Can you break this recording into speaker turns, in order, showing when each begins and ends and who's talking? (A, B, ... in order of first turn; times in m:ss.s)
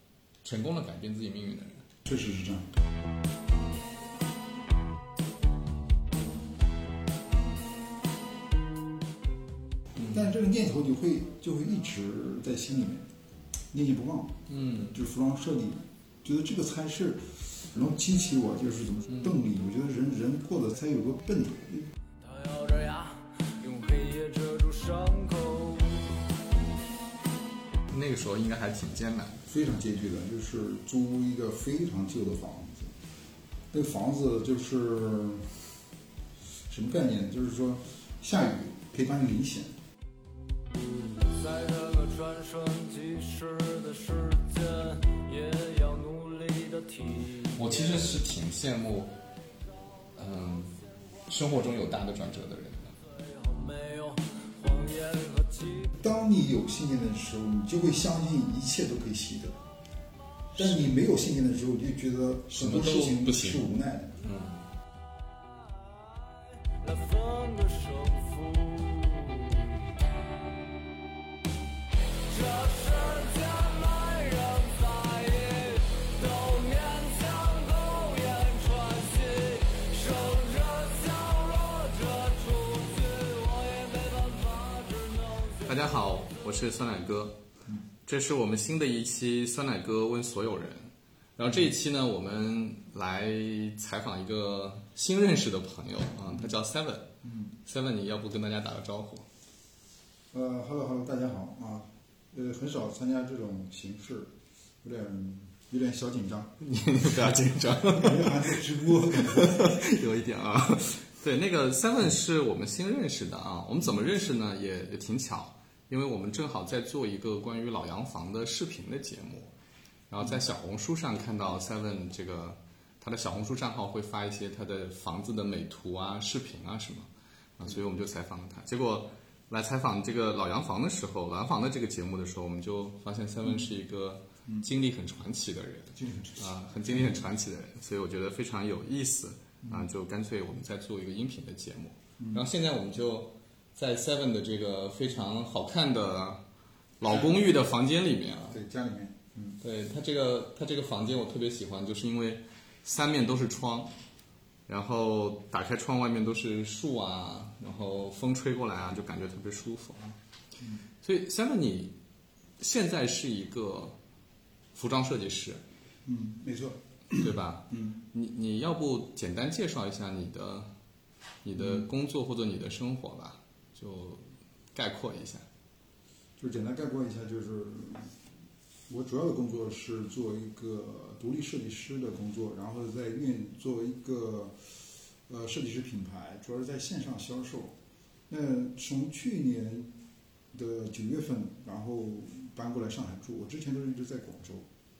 0:00.4-0:01.8 A
0:02.0-0:02.7 B
0:10.0-0:10.3 A
0:10.1-0:13.0 B
0:13.7-0:21.9 B
0:14.5-0:15.0 A
0:19.1-0:19.3 A
0:22.2-0:26.2 C
0:27.9-0:29.4 A
0:29.5-0:32.9 B
0:33.7-0:35.7 B
0:36.7-0:39.8 B
0:41.2-0:48.3 C
0:47.5-0:49.2 A
0:50.2-0:52.9 A
0:53.3-0:55.9 C
0:56.0-0:59.6 B
1:00.6-1:00.9 A
1:00.6-1:04.2 B
1:02.5-1:03.7 A
1:04.2-1:04.7 A
1:05.7-1:09.8 C
1:12.3-1:25.9 C
1:25.6-1:27.4 A
1:28.0-1:37.1 A
1:37.2-1:37.5 B
1:37.6-1:39.3 A
1:40.3-1:44.3 B
1:44.8-1:46.5 B
1:46.6-1:59.5 A
1:47.8-1:49.9 B
2:00.1-2:26.4 A
2:15.9-2:17.2 B
2:22.2-2:22.4 B
2:27.0-2:28.6 A
2:27.0-2:27.4 B
2:28.5-2:29.6 B
2:29.6-2:33.9 A
2:34.7-2:40.1 A
2:41.0-2:41.9 A
2:42.6-2:44.0 A
2:44.7-2:45.6 A
2:46.0-2:48.0 B
2:47.1-2:50.7 A
2:51.4-2:55.4 A
2:51.6-2:51.8 B
2:56.4-2:58.1 B
2:58.9-3:07.7 B
3:08.3-3:09.9 B
3:10.5-3:14.7 B